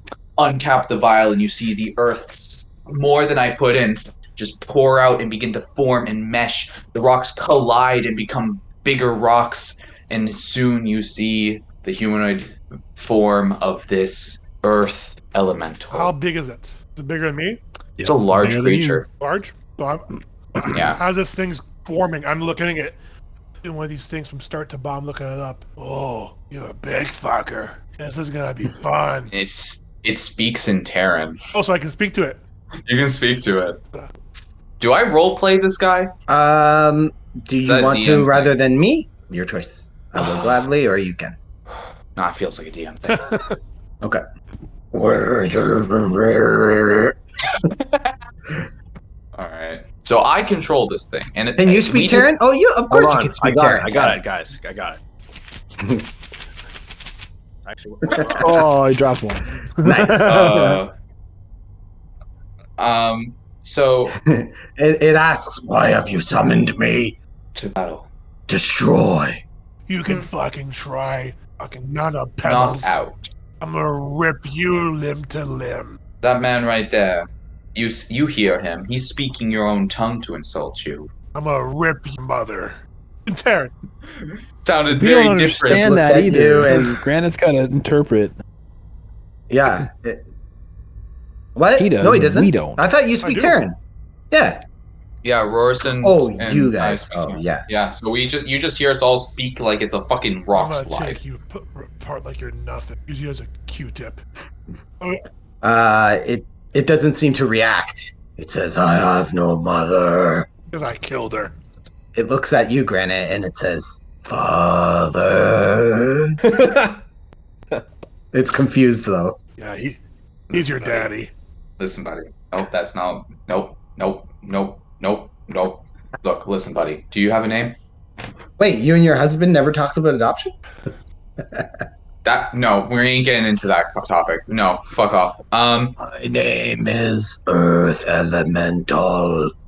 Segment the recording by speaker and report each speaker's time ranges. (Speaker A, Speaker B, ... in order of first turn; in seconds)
Speaker A: 0.4-16.1, 18.0-19.1, 20.7-21.0, 29.3-31.4, 32.9-33.8, 34.8-36.1, 37.6-38.6, 40.2-40.6, 42.2-43.4, 47.8-48.1, 49.4-52.3, 60.2-60.9, 62.8-64.2, 67.5-68.1, 72.4-73.3, 76.2-81.1, 84.1-86.0, 95.2-101.2, 120.5-121.1, 121.8-127.8, 132.2-136.0
Speaker B: 15.9-17.6, 19.2-23.0, 23.6-29.3, 31.5-32.4, 43.1-43.6, 69.9-73.0, 73.6-76.0, 81.3-83.7, 93.2-93.6, 100.5-104.2, 110.7-111.5, 119.6-120.0, 120.5-121.3
Speaker C: 18.0-19.0, 58.4-60.5, 84.9-88.3, 91.8-92.8
Speaker D: 36.3-41.4, 44.9-47.7, 51.6-54.2, 55.8-56.1, 59.8-60.8, 64.1-67.2, 68.5-69.4, 85.7-87.0, 89.5-90.2, 91.5-93.8, 94.3-94.6, 96.0-97.7, 105.6-110.5, 112.1-116.4, 118.3-119.4, 128.6-130.5, 131.4-131.7, 136.0-139.5
Speaker E: 52.9-55.0, 57.6-58.7, 116.4-117.0